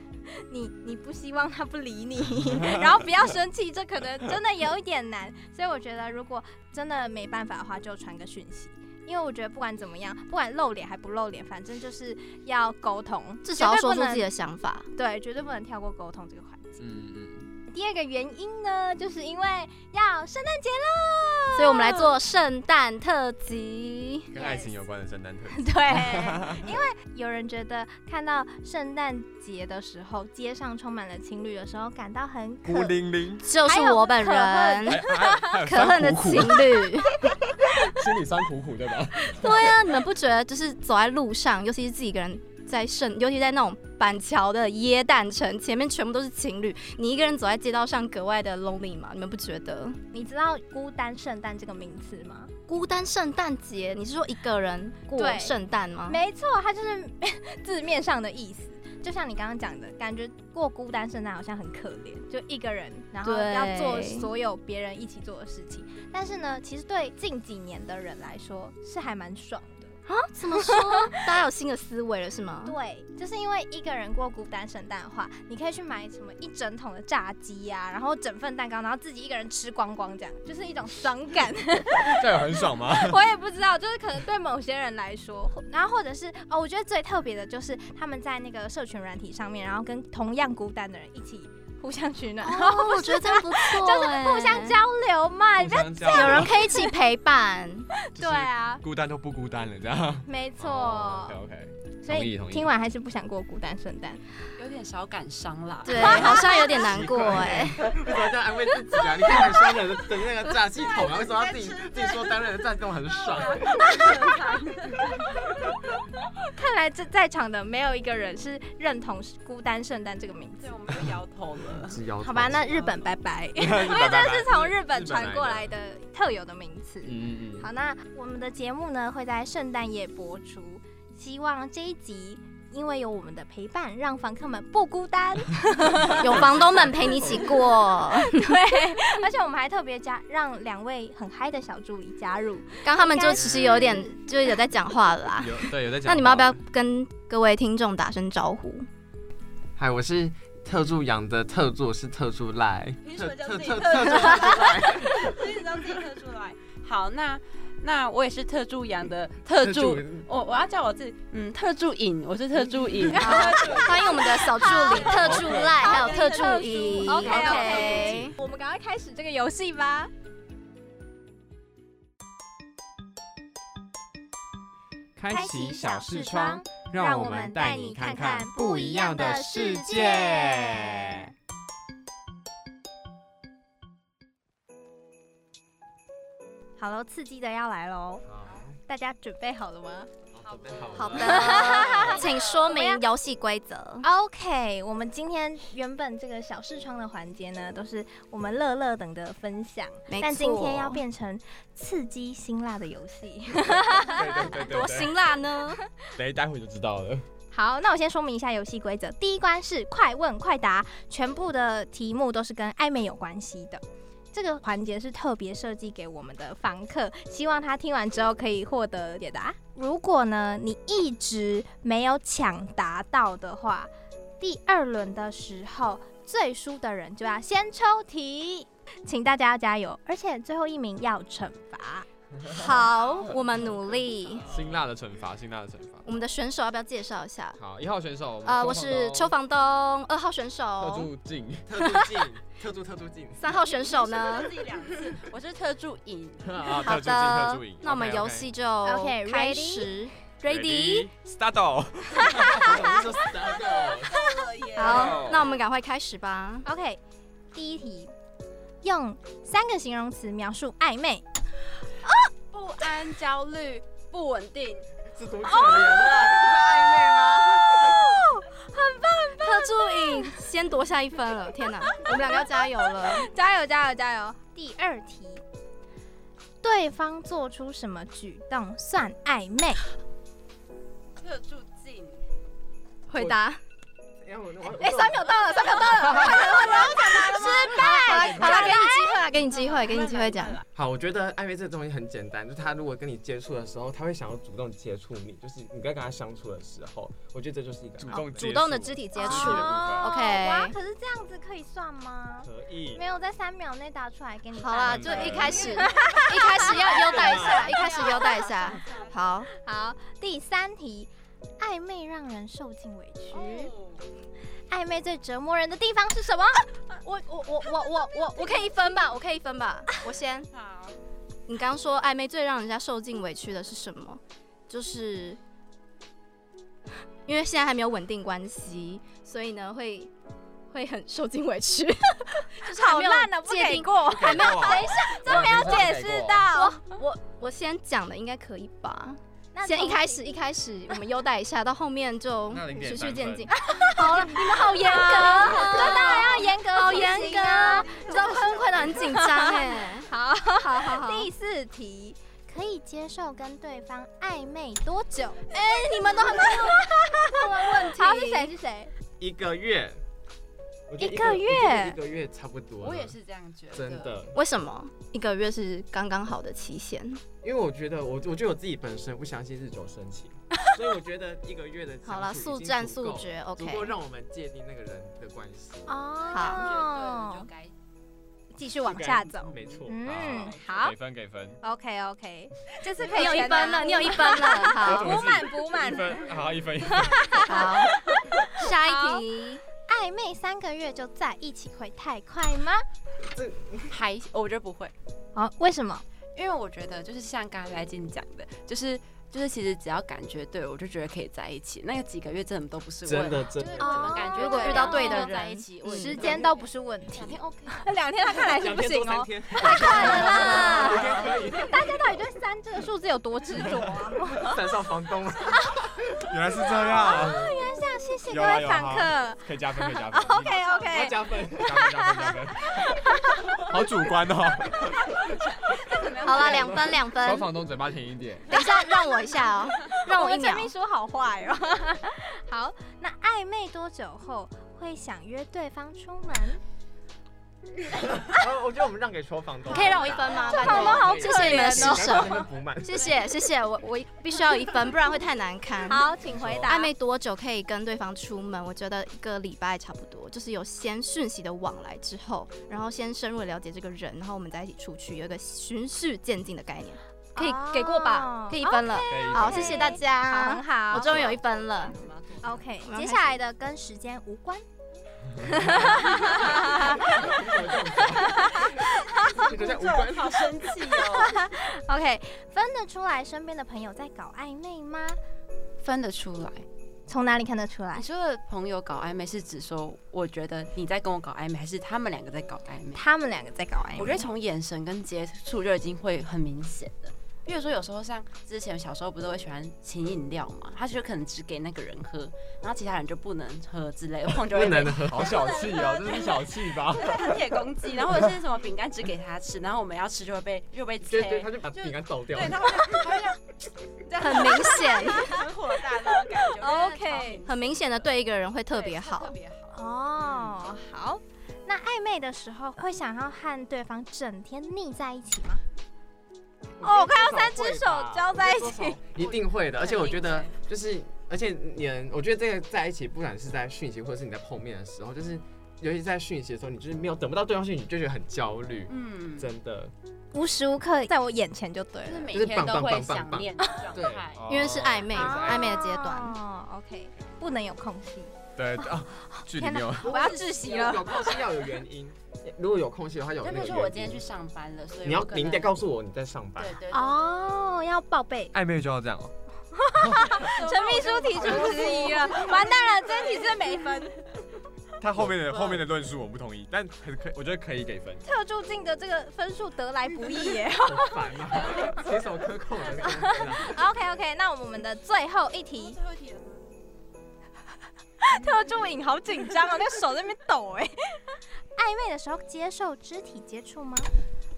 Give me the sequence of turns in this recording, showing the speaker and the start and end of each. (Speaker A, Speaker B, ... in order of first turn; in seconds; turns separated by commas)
Speaker A: 0.3-14.3, Speaker B: 13.4-14.9, Speaker A: 14.9-16.8, Speaker C: 16.8-17.5, Speaker A: 17.7-22.1, Speaker B: 21.5-24.3, Speaker C: 24.3-26.7, Speaker A: 24.4-24.8, Speaker A: 25.5-33.0, Speaker C: 32.7-33.5, Speaker B: 33.4-37.4, Speaker A: 33.6-35.7, Speaker C: 34.9-39.8, Speaker B: 39.2-50.0, Speaker A: 50.1-52.5, Speaker B: 52.7-56.2, Speaker A: 55.1-55.6, Speaker A: 56.1-70.0, Speaker B: 63.2-64.3, Speaker B: 70.1-72.8, Speaker A: 70.5-71.2, Speaker A: 72.7-97.0, Speaker C: 82.0-83.2, Speaker B: 92.4-94.8, Speaker C: 95.6-96.5, Speaker B: 96.1-97.9, Speaker A: 98.1-98.8, Speaker C: 98.2-102.7, Speaker A: 100.3-101.4, Speaker A: 102.1-104.2, Speaker D: 104.6-106.3, Speaker B: 105.8-107.8, Speaker A: 105.9-106.8, Speaker E: 106.1-114.3, Speaker D: 110.8-112.3, Speaker D: 113.1-115.5, Speaker A: 116.4-120.7, Speaker D: 120.6-123.0, Speaker E: 121.7-122.7, Speaker A: 122.2-143.9, Speaker C: 123.6-125.7, Speaker C: 127.0-127.7, Speaker B: 136.2-138.6, Speaker C: 136.3-137.2, Speaker B: 142.8-148.9, Speaker C: 145.4-146.6, Speaker E: 149.8-155.4, Speaker D: 153.0-168.3, Speaker E: 159.6-160.3, Speaker A: 163.1-170.1, Speaker B: 163.1-168.3, Speaker C: 165.1-165.9, Speaker F: 175.2-181.3, Speaker A: 175.3-181.3, Speaker A: 186.8-188.2, Speaker E: 188.3-188.8, Speaker A: 188.9-190.1, Speaker E: 190.3-192.2, Speaker D: 190.4-192.7, Speaker B: 190.9-194.1, Speaker A: 191.2-193.0, Speaker A: 194.0-204.5, Speaker B: 200.1-201.0, Speaker C: 204.0-205.2, Speaker B: 204.2-205.8, Speaker C: 206.1-207.2, Speaker A: 207.5-232.1, Speaker B: 232.4-234.5, Speaker C: 234.5-236.1, Speaker E: 234.5-234.8, Speaker B: 236.1-237.6, Speaker C: 237.6-239.3, Speaker B: 238.4-241.1, Speaker C: 240.8-241.7, Speaker E: 241.7-243.5, Speaker B: 243.4-244.6, Speaker D: 243.5-246.7, Speaker C: 246.4-248.5, Speaker B: 246.8-251.1, Speaker A: 248.8-249.9, Speaker C: 250.5-252.8, Speaker A: 252.2-252.9, Speaker E: 252.6-254.2, Speaker D: 253.6-255.5, Speaker B: 254.8-256.7, Speaker C: 254.8-255.5, Speaker A: 256.6-257.0, Speaker A: 257.5-258.1, Speaker A: 258.8-261.2, Speaker D: 262.5-264.9, Speaker E: 265.1-268.0, Speaker A: 265.6-270.4, Speaker B: 269.4-273.3, Speaker A: 271.9-275.4, Speaker A: 276.6-279.8, Speaker D: 281.2-282.2, Speaker B: 283.1-283.6, Speaker E: 284.2-285.4, Speaker A: 284.8-289.2, Speaker B: 284.9-290.6, Speaker D: 286.5-287.7, Speaker C: 288.1-288.7, Speaker D: 289.5-290.7, Speaker E: 290.8-298.2, Speaker C: 298.0-300.1, Speaker B: 298.1-300.8, Speaker A: 299.2-308.5, Speaker E: 302.4-303.0, Speaker B: 304.6-309.5, Speaker C: 304.9-305.8, Speaker D: 306.6-309.1, Speaker E: 307.2-307.7, Speaker A: 309.6-313.7, Speaker D: 313.3-314.1, Speaker A: 314.7-316.7, Speaker B: 317.0-320.5, Speaker D: 320.5-321.0, Speaker B: 321.5-325.4, Speaker B: 327.3-330.1, Speaker B: 330.7-335.9, Speaker A: 332.6-336.9, Speaker C: 334.1-336.5, Speaker B: 336.5-351.3, Speaker A: 339.5-340.2, Speaker C: 342.5-343.5, Speaker A: 343.5-355.6, Speaker B: 355.5-358.5, Speaker A: 356.1-358.9, Speaker E: 359.2-360.0, Speaker E: 360.9-363.2, Speaker A: 361.0-362.0, Speaker D: 362.8-364.3, Speaker E: 363.7-364.4, Speaker B: 364.3-367.2, Speaker E: 367.4-375.9, Speaker B: 372.1-373.9, Speaker A: 375.9-377.5, Speaker D: 376.2-377.7, Speaker B: 376.3-376.7, Speaker A: 378.6-381.0, Speaker E: 378.9-380.0, Speaker C: 380.1-381.6, Speaker A: 381.6-386.2, Speaker B: 383.0-385.2, Speaker C: 384.7-387.5, Speaker A: 386.9-389.2, Speaker B: 387.4-389.6, Speaker A: 389.9-392.8, Speaker E: 393.2-393.9, Speaker D: 393.9-394.9, Speaker A: 395.4-396.0, Speaker D: 396.4-407.9, Speaker E: 403.1-404.0, Speaker A: 403.8-405.3, Speaker B: 403.8-406.2, Speaker A: 405.9-414.5, Speaker E: 408.5-412.0, Speaker C: 410.2-411.0, Speaker E: 414.4-415.7, Speaker A: 415.5-415.8, Speaker C: 416.3-417.4, Speaker A: 416.6-423.5, Speaker E: 417.1-417.5, Speaker C: 418.3-420.6, Speaker D: 420.5-420.9, Speaker E: 420.9-421.9, Speaker C: 421.6-422.7, Speaker C: 423.7-425.0, Speaker D: 425.3-427.0, Speaker B: 426.2-427.5, Speaker C: 427.2-428.5, Speaker B: 428.5-430.7, Speaker A: 428.5-436.6, Speaker E: 438.1-443.1, Speaker B: 439.7-446.1, Speaker A: 439.7-442.4, Speaker A: 445.9-446.9, Speaker C: 446.2-446.7, Speaker B: 446.7-462.0, Speaker A: 457.4-461.2, Speaker C: 459.1-460.0, Speaker D: 461.0-462.6, Speaker A: 462.4-464.6, Speaker B: 462.9-463.4, Speaker A: 465.4-467.4, Speaker E: 466.2-470.5, Speaker A: 468.2-469.5, Speaker D: 469.4-471.4, Speaker A: 471.1-475.2, Speaker D: 475.8-476.7, Speaker A: 477.1-478.1, Speaker D: 477.9-483.0, Speaker A: 482.9-484.3, Speaker D: 484.0-496.2, Speaker E: 494.5-495.5, Speaker C: 495.1-497.3, Speaker A: 495.8-496.1, Speaker D: 496.9-503.4, Speaker E: 501.1-503.2, Speaker D: 504.1-508.1, Speaker B: 504.2-505.4, Speaker A: 504.9-505.4, Speaker A: 506.4-507.4, Speaker B: 507.5-509.4, Speaker D: 508.7-510.4, Speaker A: 509.7-515.6, Speaker E: 516.8-529.9, Speaker A: 516.8-519.0, Speaker D: 519.2-520.5, Speaker D: 528.9-529.5, Speaker A: 530.3-532.3, Speaker D: 532.0-534.5, Speaker E: 532.3-534.3, Speaker C: 534.4-535.7, Speaker B: 534.5-536.4, Speaker A: 535.1-541.3, Speaker C: 538.6-540.1, Speaker D: 540.1-541.4, Speaker E: 540.1-544.2, Speaker D: 543.4-545.8, Speaker E: 545.0-546.8, Speaker D: 546.6-547.3, Speaker A: 546.9-548.5, Speaker C: 548.5-549.3, Speaker A: 549.8-554.2, Speaker C: 550.0-550.4, Speaker D: 550.3-553.8, Speaker E: 551.4-552.1, Speaker C: 555.0-558.2, Speaker E: 555.2-555.8, Speaker A: 558.2-561.8, Speaker E: 560.9-563.8, Speaker A: 563.0-566.0, Speaker D: 565.7-566.6, Speaker A: 568.2-574.1